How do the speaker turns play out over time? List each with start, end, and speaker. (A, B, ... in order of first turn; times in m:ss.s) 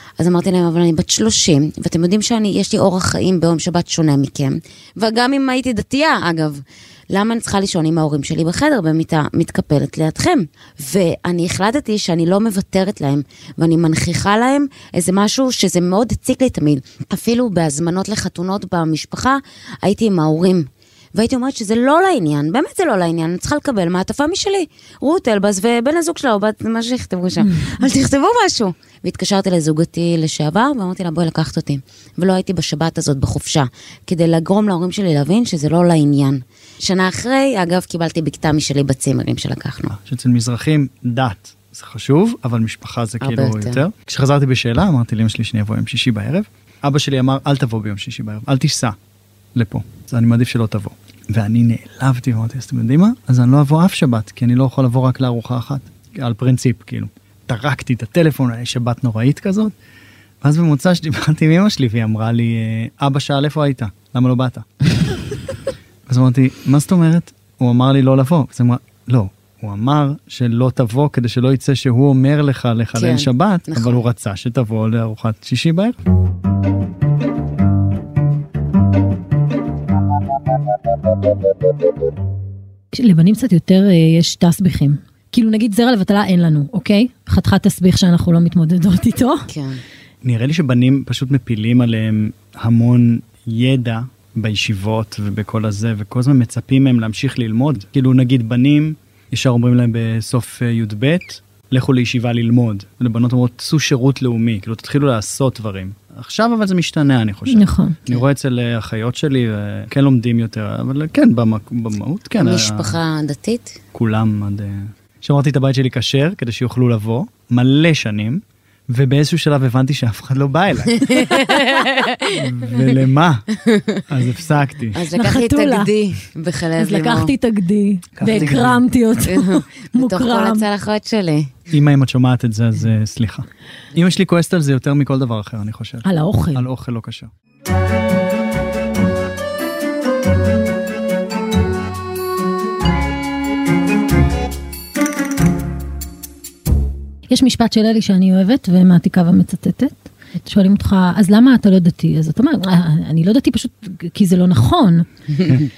0:00.2-0:39.9 A
0:39.9-0:49.0 B
0:43.2-0:43.8 A
0:49.5-0:59.7 B
1:00.4-1:04.7 B
1:06.1-1:16.0 B
1:12.9-1:14.0 A
1:22.9-1:29.5 C
1:29.5-1:29.8 A
1:30.2-1:53.0 B
1:47.5-1:48.0 C
1:52.4-1:53.8 A
1:53.9-2:01.4 B
2:00.9-2:02.7 A
2:02.2-2:03.5 B
2:03.5-2:04.0 A
2:04.1-2:05.0 B
2:04.9-2:07.3 A
2:05.1-2:05.9 C
2:06.8-2:10.6 C
2:08.2-2:08.8 B
2:08.2-2:08.6 A
2:09.2-2:11.5 A
2:11.7-2:17.3 B
2:16.0-2:16.6 C
2:27.3-2:35.1 C